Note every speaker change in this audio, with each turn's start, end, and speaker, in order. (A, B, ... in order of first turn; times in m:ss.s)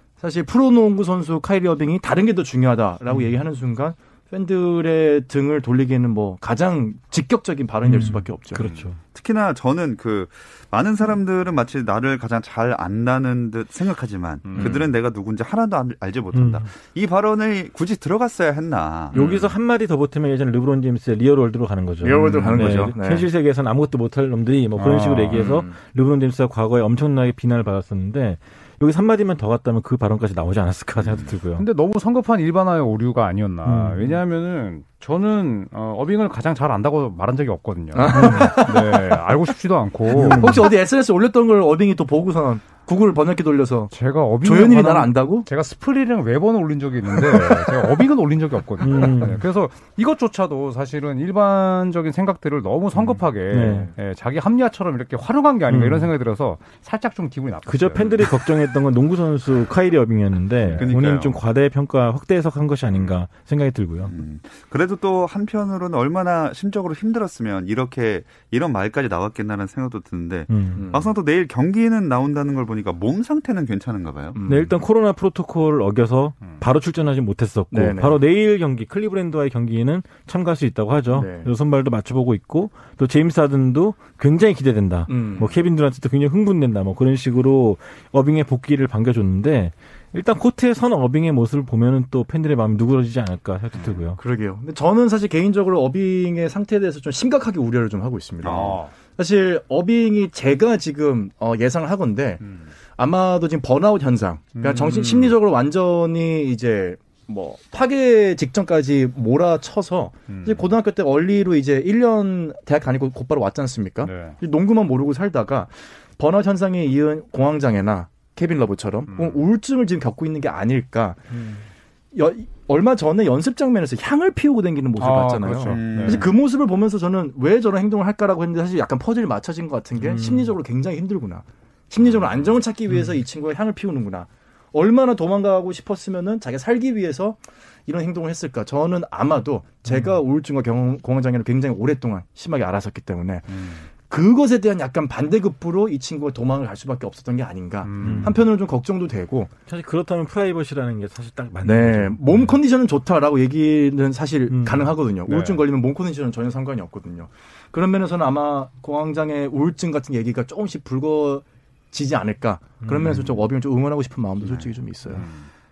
0:00.2-0:08.6 A
0:07.8-0:09.0 B
0:08.6-0:08.9 C
0:09.1-0:19.2 D
0:14.4-0:14.8 C
0:16.3-0:16.6 B
0:19.1-0:31.6 B
0:19.1-0:19.4 A
0:22.0-0:23.3 A
0:24.8-0:25.5 C
0:25.3-0:25.8 A
0:31.6-0:40.6 C
0:33.6-0:34.2 B
0:37.9-0:39.1 A
0:38.1-0:38.6 B
0:40.1-0:40.7 B
0:40.2-0:45.5 A
0:43.9-0:58.2 C
0:48.8-0:49.4 B
0:53.5-0:53.9 B
0:55.7-0:56.1 B
0:57.7-1:04.1 B
1:00.6-1:00.9 C
1:00.8-1:01.4 D
1:04.0-1:14.4 D
1:10.5-1:10.8 B
1:10.7-1:11.1 A
1:14.3-1:14.8 A
1:14.4-1:34.2 B
1:17.7-1:18.2 A
1:21.1-1:21.5 A
1:25.1-1:25.6 A
1:34.2-2:29.5 A
1:38.4-1:38.8 D
1:38.5-1:38.9 C
1:42.4-1:42.7 C
1:44.6-1:45.3 C
1:50.3-1:50.7 C
1:54.0-1:54.4 C
1:59.1-1:59.4 C
2:05.0-2:06.3 C
2:05.7-2:06.4 D
2:10.0-2:10.5 B
2:23.5-2:23.8 C
2:27.8-2:28.4 C
2:28.0-2:28.4 B
2:29.7-2:32.5 B
2:31.6-2:45.3 A
2:34.5-2:34.9 B
2:35.3-2:35.6 C
2:42.8-2:43.3 B
2:44.4-2:44.7 D
2:45.1-2:45.5 C